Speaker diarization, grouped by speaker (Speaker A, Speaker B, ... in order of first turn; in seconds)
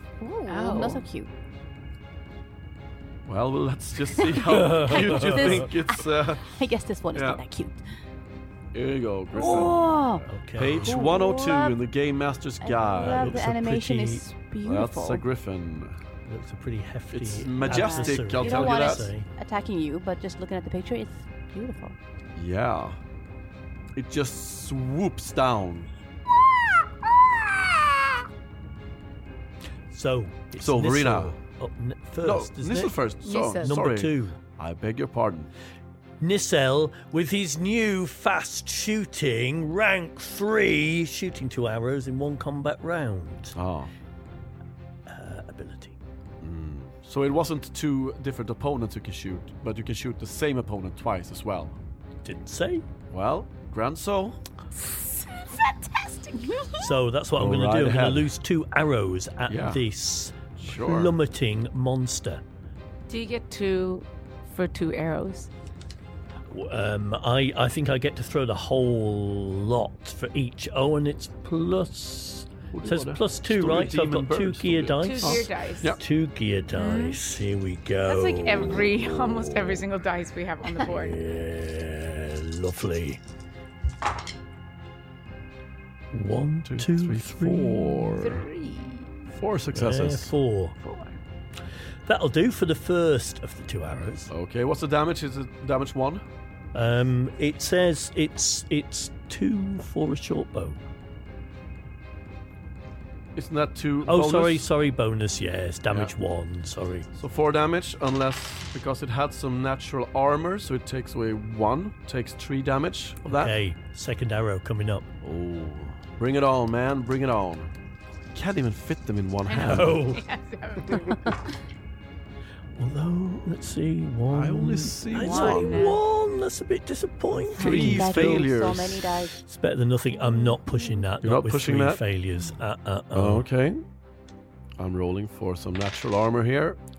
Speaker A: 0.2-1.3, 4.2-7.8, 9.3-11.8, 12.6-15.2, 17.6-22.0, 127.5-129.4
Speaker B: 0.5-1.1, 33.2-33.8, 54.7-56.9, 63.1-65.5, 75.0-76.0, 76.7-77.2, 78.0-81.2, 88.2-89.3, 90.8-91.2, 119.5-121.4, 125.1-126.0
Speaker C: 3.2-6.6, 7.1-7.4, 8.7-10.0, 10.6-13.5, 14.6-16.0, 17.1-19.1, 22.4-23.0, 23.9-25.9, 30.6-31.4, 32.2-35.5, 43.5-43.9, 46.4-51.8, 53.1-54.4, 57.4-58.3, 59.5-59.8, 60.5-61.1, 72.7-76.0, 86.6-88.5, 89.3-90.3, 94.3-96.2, 103.3-104.6, 107.2-113.5, 115.2-117.7, 118.3-120.0, 124.3-125.9, 127.5-129.1, 131.2-132.0, 133.1-133.8, 134.8-136.8
Speaker D: 4.5-5.6, 9.4-11.0, 13.0-14.2, 16.2-19.3, 29.9-32.9, 33.6-34.4, 36.2-43.5, 45.1-45.9, 52.2-52.8, 56.8-62.4, 66.5-79.8, 80.8-83.2, 86.1-88.2, 89.7-90.8, 92.0-94.3, 96.7-100.8, 104.1-107.1, 113.2-115.0, 119.6-120.2, 122.7-128.4, 129.4-133.4